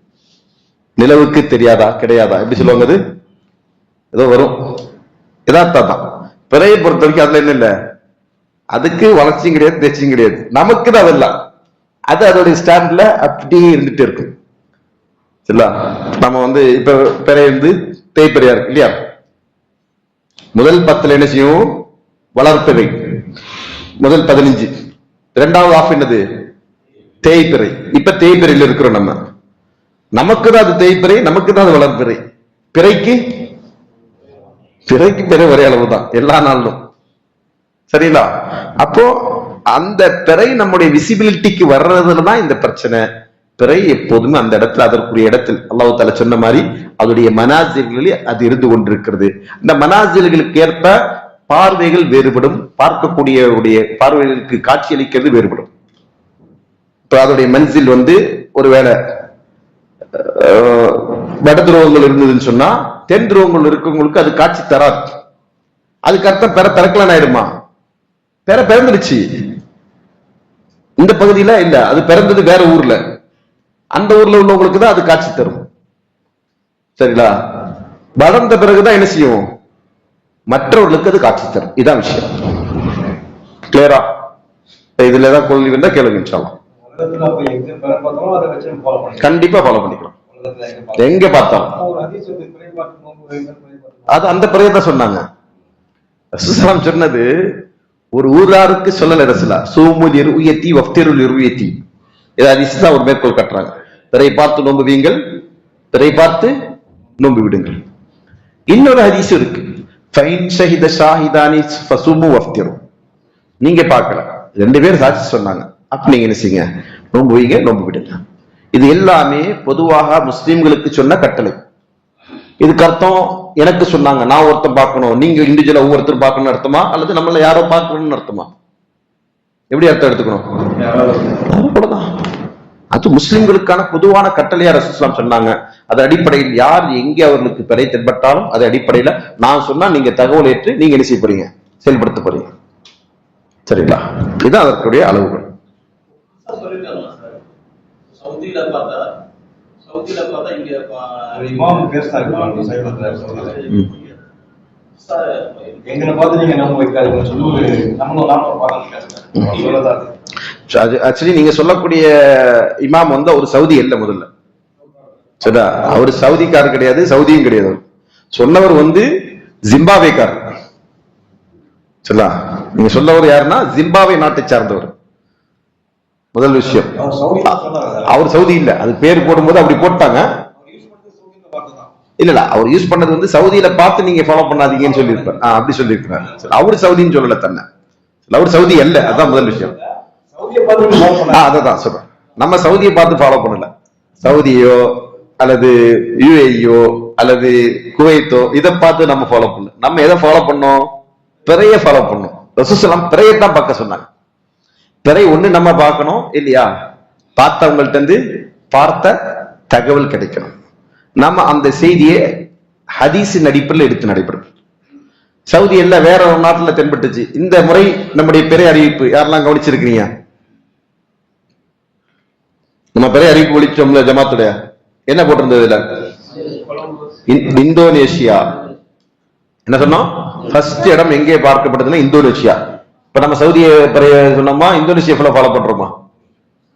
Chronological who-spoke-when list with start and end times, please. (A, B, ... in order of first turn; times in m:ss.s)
0:01.0-0:03.0 A
0:04.1-0:04.5 A
0:05.5-0:07.7 A
0:08.7-0:11.3 A
0:12.1-0:14.3 A
0:15.4-0:18.9 A
0:20.5-0:21.7 A
0:22.4-0:23.2 A
0:24.0-0:24.7 A
0:25.4-0:26.2 A
0:27.2-0:29.2 A
0:30.2-0:32.2 A
0:32.7-0:33.2 A
0:34.9-0:36.8 A
0:37.9-0:38.3 A
0:38.8-0:43.0 A
0:43.6-0:51.0 A
0:51.5-0:55.7 A
0:57.1-0:59.0 A
1:00.1-1:05.1 A
1:06.0-1:07.5 A
1:08.5-1:09.2 A
1:11.0-1:13.0 A
1:13.9-1:15.6 A
1:17.0-1:17.3 A
1:18.2-1:19.4 A
1:20.5-1:22.8 A
1:23.7-1:24.0 A
1:25.0-1:26.5 A
1:26.9-1:29.3 B
1:29.2-1:30.1 A
1:30.3-1:34.2 B
1:31.0-1:31.7 A
1:34.1-1:35.2 A
1:36.3-1:37.3 A
1:38.1-1:41.7 A
1:42.4-1:45.2 A
1:45.9-1:46.5 A
1:47.2-1:47.8 A
1:48.7-1:52.8 A
1:53.6-1:58.2 A
1:58.7-2:01.6 A
2:02.6-2:08.5 A
2:09.7-2:12.1 A
2:12.9-2:22.5 A
2:23.7-2:25.5 A
2:26.4-2:27.3 C
2:28.2-2:29.1 C
2:29.8-2:31.4 C
2:31.3-2:33.6 B
2:33.6-2:34.1 C
2:35.0-2:35.8 C
2:35.9-2:40.1 B
2:40.7-2:44.3 A
2:45.4-2:49.0 A
2:49.7-2:50.4 A
2:52.0-2:54.9 A
2:56.3-2:57.0 A
2:56.8-2:58.2 B
2:58.0-3:00.3 A
3:00.6-3:01.9 B
3:02.2-3:07.6 A
3:08.3-3:09.7 A
3:08.9-3:09.8 B
3:10.3-3:11.5 B
3:11.3-3:13.7 A
3:14.2-3:20.9 A
3:21.5-3:24.1 A
3:25.0-3:26.7 A
3:27.4-3:28.2 A
3:28.7-3:29.1 A
3:29.7-3:30.5 A
3:31.2-3:32.2 A
3:33.0-3:34.5 A
3:35.5-3:40.1 A
3:42.9-3:44.5 A
3:45.1-3:45.8 A
3:47.2-3:48.6 A
3:49.7-3:52.6 A
3:53.1-3:55.9 A